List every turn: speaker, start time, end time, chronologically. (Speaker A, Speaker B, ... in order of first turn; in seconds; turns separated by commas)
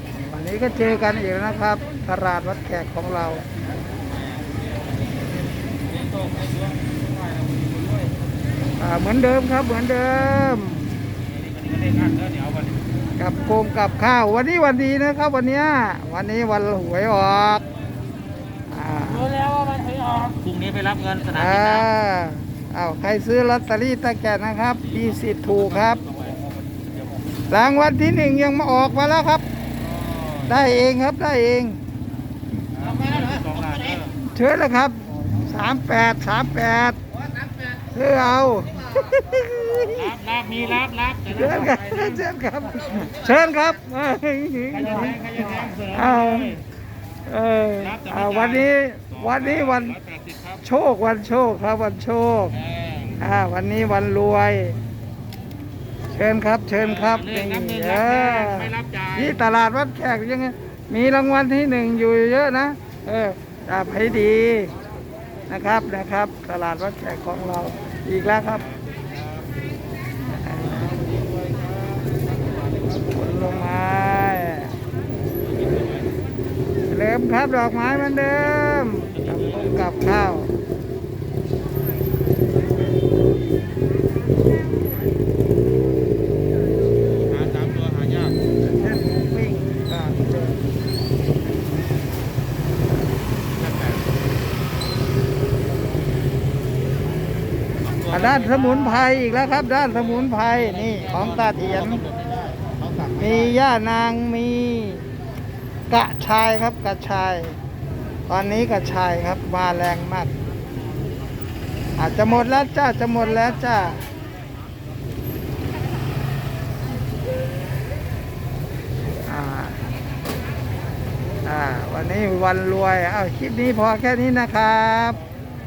Speaker A: 0.1-3.4, Speaker A: 8.8-10.9, Speaker B: 11.4-12.7, Speaker A: 13.2-17.6, Speaker A: 18.7-19.4, Speaker B: 19.2-21.9, Speaker A: 21.3-26.0, Speaker B: 25.0-26.8, Speaker A: 27.5-29.4, Speaker B: 29.9-30.5, Speaker A: 30.4-31.8, Speaker B: 32.8-34.1, Speaker A: 34.2-37.0, Speaker A: 37.9-40.1, Speaker B: 39.9-42.2, Speaker A: 41.3-46.6, Speaker B: 44.7-46.6, Speaker A: 47.2-50.0, Speaker B: 47.8-48.7, Speaker B: 49.2-50.6, Speaker A: 50.6-52.5, Speaker B: 52.6-53.2, Speaker A: 53.2-54.8, Speaker A: 56.1-64.7, Speaker B: 56.8-59.3, Speaker A: 65.5-68.7, Speaker B: 68.8-69.4, Speaker A: 70.3-71.0, Speaker B: 70.9-72.5, Speaker A: 73.1-74.8, Speaker B: 75.6-76.0, Speaker A: 76.9-80.5, Speaker B: 87.3-88.3, Speaker A: 88.6-90.6, Speaker B: 93.6-94.0, Speaker B: 97.9-98.9, Speaker A: 98.1-102.0, Speaker B: 100.8-103.2, Speaker A: 103.2-105.1, Speaker A: 105.9-107.6, Speaker A: 108.3-110.3, Speaker A: 112.0-114.0, Speaker A: 119.3-119.8, Speaker A: 121.4-125.2